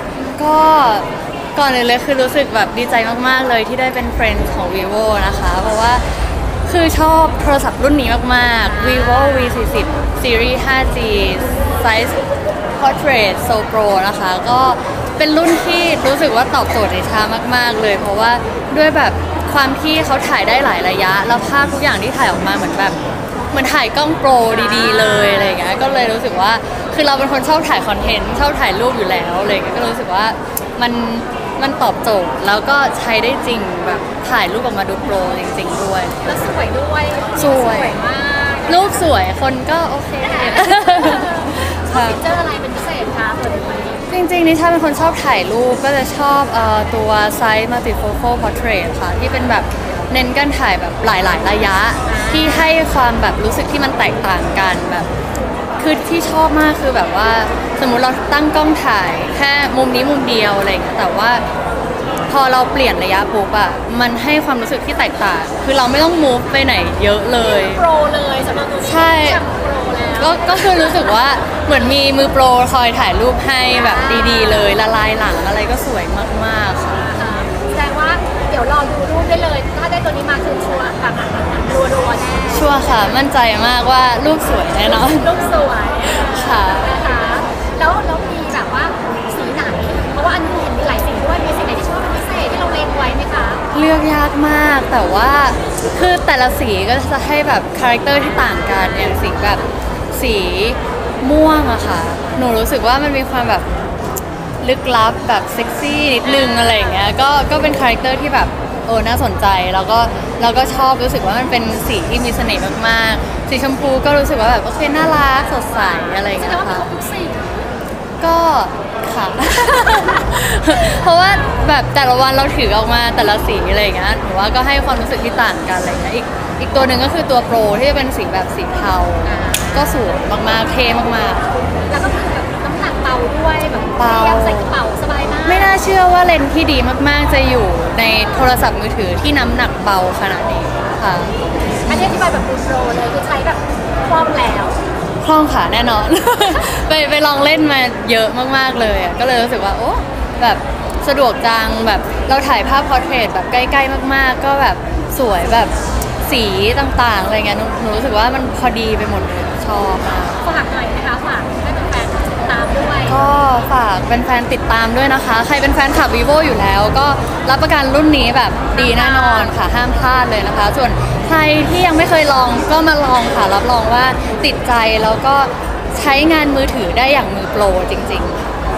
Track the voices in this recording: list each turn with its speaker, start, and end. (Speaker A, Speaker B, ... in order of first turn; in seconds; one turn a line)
Speaker A: 0.1-12.2
Speaker B: 8.6-9.6
Speaker A: 12.8-23.0
Speaker A: 23.5-36.3
Speaker B: 24.5-25.6
Speaker B: 36.2-39.1
Speaker A: 37.4-38.0
Speaker A: 38.7-42.2
Speaker B: 40.2-44.0
Speaker A: 44.1-55.1
Speaker B: 52.0-52.8
Speaker A: 55.8-61.4
Speaker A: 62.3-67.8
Speaker B: 67.4-71.2
Speaker A: 68.8-69.4
Speaker A: 70.2-77.1
Speaker B: 73.7-74.8
Speaker B: 76.9-83.1
Speaker A: 82.5-85.4
Speaker B: 84.8-93.6
Speaker A: 86.1-87.0
Speaker A: 93.7-103.7
Speaker B: 98.3-99.6
Speaker A: 104.6-116.9
Speaker B: 106.2-107.1
Speaker B: 115.5-117.5
Speaker A: 118.2-131.5
Speaker B: 119.8-121.7
Speaker B: 129.2-130.1
Speaker B: 131.9-135.8
Speaker A: 134.0-134.7
Speaker A: 135.4-142.2
Speaker B: 141.9-144.8
Speaker A: 145.2-155.7
Speaker A: 156.2-160.4
Speaker B: 160.4-163.2
Speaker A: 163.1-178.4
Speaker B: 168.7-169.6